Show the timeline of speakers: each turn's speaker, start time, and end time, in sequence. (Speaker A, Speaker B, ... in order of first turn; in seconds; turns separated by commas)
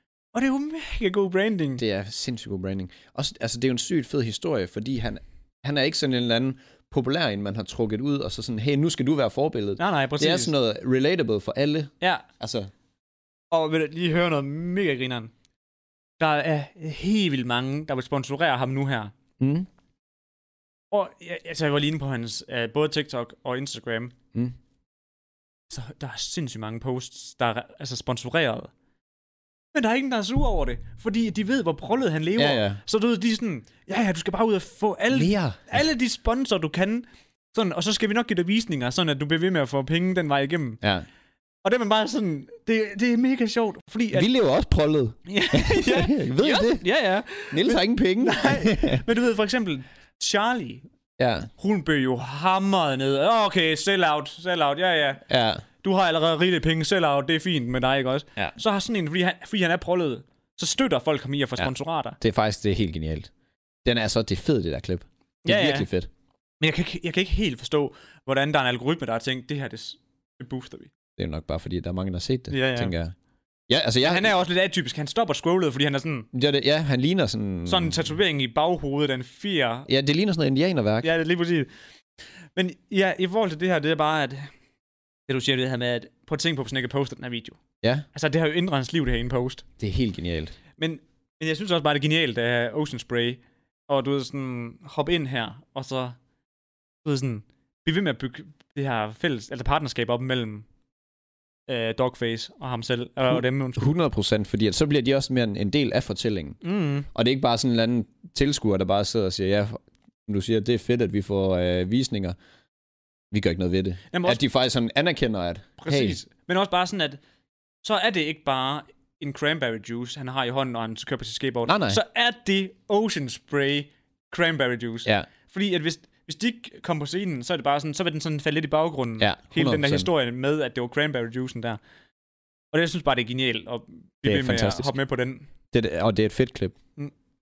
Speaker A: 0.3-1.8, Speaker B: 1.8-12.7, Speaker A: 9.8-10.5, Speaker A: 12.0-12.2, Speaker A: 13.5-15.3, Speaker A: 16.2-19.1, Speaker B: 19.4-19.7, Speaker A: 20.9-24.1, Speaker A: 25.7-28.7, Speaker A: 29.7-40.8, Speaker B: 32.4-32.8, Speaker B: 35.1-35.6, Speaker A: 41.6-44.3, Speaker B: 44.1-46.8, Speaker A: 45.3-50.8, Speaker B: 47.5-49.0, Speaker B: 51.2-51.5, Speaker A: 51.6-55.2, Speaker B: 55.3-55.6, Speaker A: 55.8-62.2, Speaker B: 61.6-63.3, Speaker B: 63.8-66.1, Speaker A: 65.4-65.9, Speaker A: 66.6-70.9, Speaker B: 71.2-73.1, Speaker A: 72.5-72.9, Speaker B: 73.7-74.3, Speaker A: 74.0-76.3, Speaker B: 76.3-78.0, Speaker A: 77.7-79.9, Speaker B: 79.9-81.1, Speaker A: 81.0-81.7, Speaker A: 82.5-84.5, Speaker A: 85.3-87.6, Speaker B: 87.8-88.1, Speaker A: 88.1-89.6, Speaker B: 89.8-90.5, Speaker A: 90.8-96.2, Speaker A: 97.0-100.7, Speaker A: 101.7-103.9, Speaker B: 103.8-106.6, Speaker A: 106.6-107.1, Speaker B: 107.1-112.3, Speaker B: 113.3-116.2, Speaker A: 114.1-114.4, Speaker A: 115.8-117.2, Speaker A: 117.8-131.8, Speaker B: 121.7-122.0, Speaker B: 129.2-130.1, Speaker A: 132.7-135.5, Speaker B: 134.2-134.9, Speaker B: 135.7-136.8